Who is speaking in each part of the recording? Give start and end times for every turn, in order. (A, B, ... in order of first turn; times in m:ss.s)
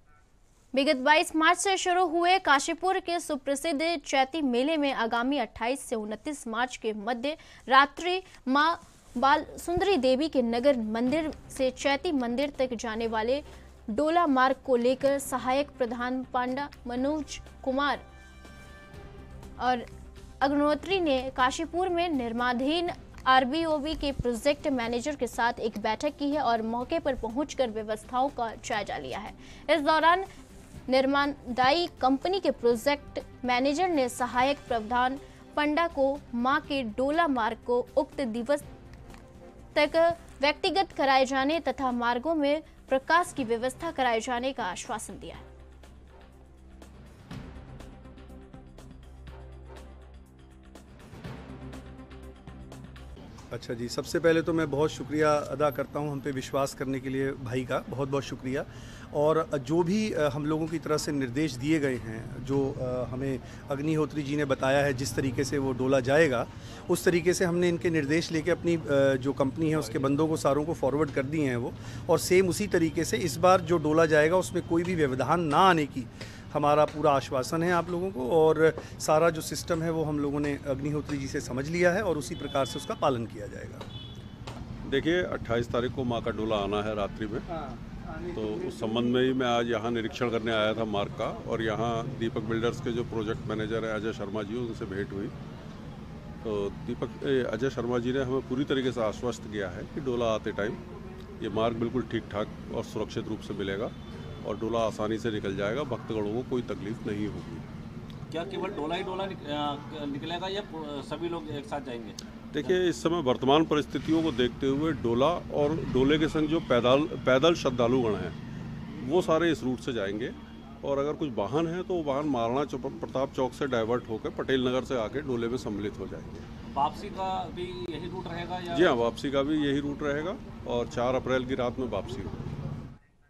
0:00.7-0:18.0 A
0:19.6-0:19.9 A
0:20.4-0:30.3 A
0:30.9-0:38.6 A
0:39.7-0:45.4 A
0:53.5-1:23.8 B
1:24.8-1:27.4 C
1:28.3-1:35.3 C
1:36.4-1:40.8 C
1:41.4-1:47.6 C
1:48.3-1:52.8 D
1:52.5-1:58.3 C
1:59.0-2:06.4 C
2:06.8-2:09.0 D
2:08.7-2:12.3 C